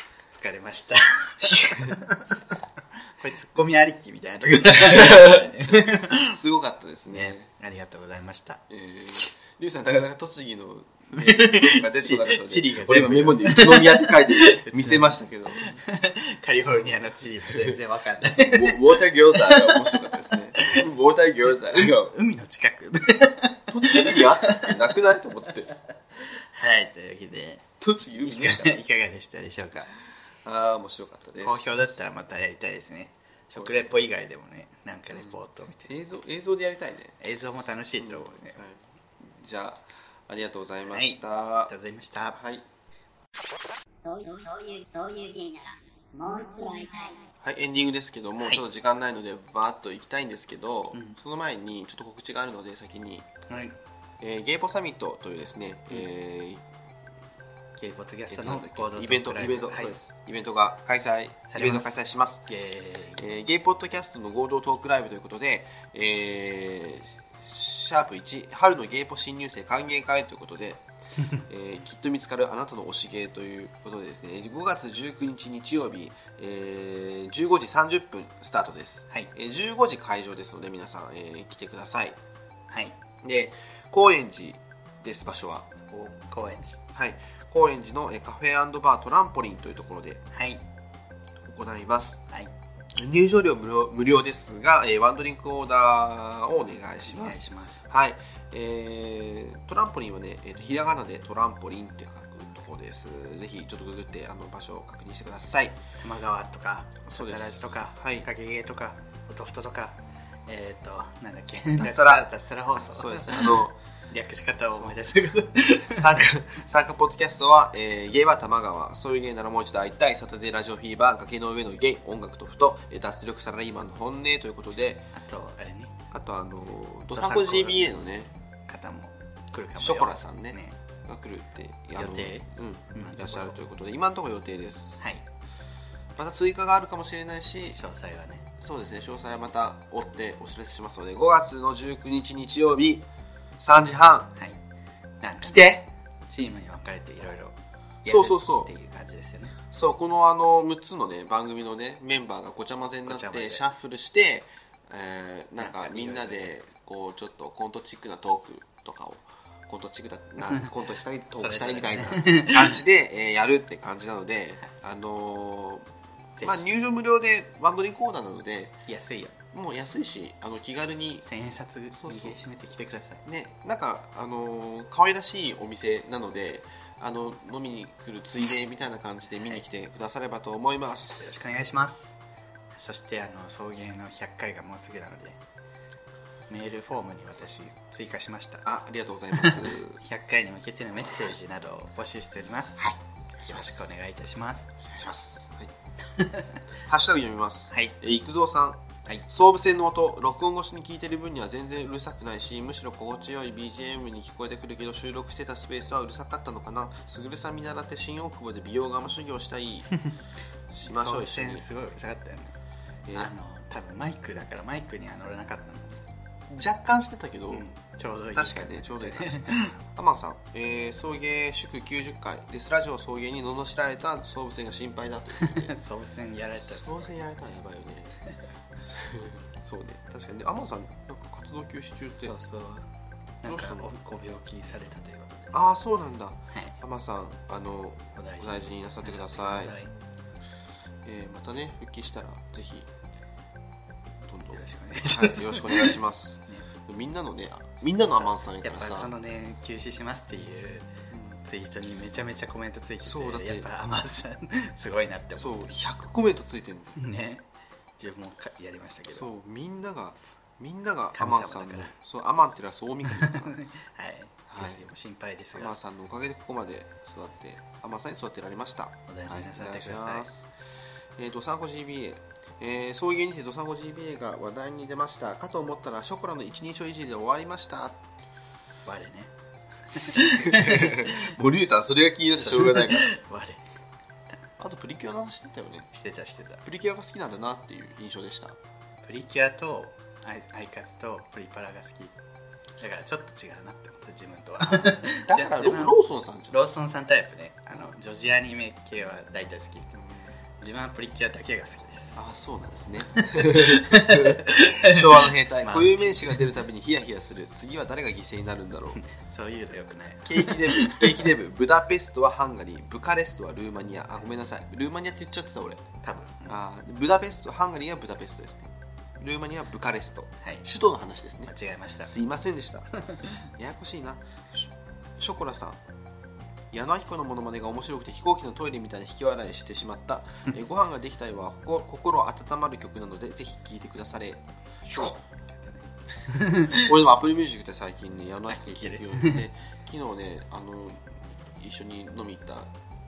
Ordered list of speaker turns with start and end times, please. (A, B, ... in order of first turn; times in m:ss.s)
0:00.3-0:02.4 A
0:03.2-0:06.4 A
0:04.8-0:05.5 B
0:06.3-0:07.5 B
0:07.1-0:08.6 A
0:08.7-0:15.8 B
0:11.1-0:20.8 A
0:16.6-0:17.8 B
0:18.4-0:22.1 B
0:21.8-0:24.8 A
0:23.7-0:25.7 B
0:26.3-0:29.9 A
0:27.8-0:28.8 B
0:30.4-0:31.9 B
0:31.4-0:35.9 A
0:33.6-0:33.8 B
0:35.1-0:37.2 B
0:37.2-0:38.6 A
0:38.0-0:41.7 B
0:40.9-0:42.4 A
0:42.3-0:42.6 B
0:44.0-0:47.3 C
0:47.4-0:53.3 B
0:53.5-0:53.8 A
0:54.2-0:56.6 B
0:57.8-1:00.0 A
0:58.3-1:02.4 B
1:01.5-1:01.9 A
1:02.5-1:03.3 A
1:03.2-1:10.8 B
1:11.4-1:22.2 B
1:22.7-1:23.0 A
1:23.2-1:25.7 B
1:25.9-1:26.8 A
1:26.9-1:30.2 B
1:30.3-1:30.6 A
1:31.4-1:32.2 B
1:32.9-1:45.8 B
1:37.0-1:37.8 A
1:46.0-1:56.2 A
1:47.1-1:48.2 B
1:51.8-1:52.2 B
1:52.9-1:53.8 B
1:55.9-2:05.1 B
2:05.1-2:06.0 A
2:06.1-2:08.3 B
2:07.1-2:08.0 A
2:08.7-2:10.8 A
2:09.8-2:15.0 B
2:11.9-2:13.5 A
2:16.2-2:17.8 B
2:17.7-2:18.4 A
2:18.6-2:23.0 B
2:23.6-2:24.3 B
2:25.2-2:27.5 A
2:25.4-2:25.8 B
2:28.0-2:29.6 A
2:28.0-2:28.7 B
2:29.7-2:45.9 B
2:33.0-2:33.6 A
2:35.6-2:36.5 A
2:41.3-2:42.8 A
2:46.4-2:48.8 B
2:48.8-2:49.4 A
2:49.5-2:51.3 B
2:51.2-2:53.2 A
2:51.9-2:52.4 B
2:53.2-3:01.4 B
3:01.2-3:02.1 A
3:02.7-3:05.4 A
3:06.5-3:08.6 A
3:08.6-3:10.0 B
3:09.3-3:14.7 A
3:13.4-3:13.9 B
3:14.8-3:15.7 B
3:16.2-3:16.6 A
3:16.8-3:29.9 B
3:17.7-3:18.0 A
3:30.7-3:31.6 B
3:30.9-3:32.6 A
3:33.0-3:33.3 B
3:33.1-3:36.0 A
3:36.5-3:37.6 B
3:37.5-3:39.7 A
3:38.3-3:45.7 B
3:45.4-3:47.3 A
3:46.6-3:48.2 B
3:48.8-3:52.3 B
3:52.2-3:52.8 A
3:53.4-3:55.6 A
3:53.4-3:54.0 B
3:55.5-3:59.7 B
3:58.2-3:59.9 A
4:01.0-4:02.9 B
4:04.2-4:09.1 B
4:04.5-4:06.0 A
4:08.1-4:10.9 A
4:11.1-4:11.4 B
4:11.4-4:15.8 A
4:13.0-4:13.7 B
4:15.3-4:17.0 B
4:17.0-4:17.4 A
4:18.0-4:19.3 A
4:19.1-4:23.5 B
4:21.1-4:21.9 A
4:23.0-4:25.7 A
4:24.5-4:24.9 B
4:25.5-4:30.5 B
4:29.1-4:30.3 A
4:31.2-4:38.1 B
4:38.8-4:39.3 A
4:39.9-4:41.3 A
4:40.2-4:43.1 B
4:42.3-4:43.6 A
4:44.6-4:45.9 B
4:45.9-4:46.6 A
4:46.6-4:48.6 B
4:49.0-4:52.1 A
4:52.8-4:56.0 A
4:54.6-4:56.6 B
4:56.5-4:59.9 A
4:59.9-5:00.3 B
5:00.6-5:02.2 A
5:02.2-5:09.0 B
5:03.3-5:06.4 A
5:09.0-5:11.2 A
5:10.2-5:15.8 B
5:16.0-5:16.5 A
5:16.5-5:22.9 B
5:21.5-5:22.1 A
5:23.6-5:25.8 B
5:26.7-5:35.1 B
5:34.9-5:36.9 A
5:36.7-5:42.7 B
5:38.5-5:39.4 A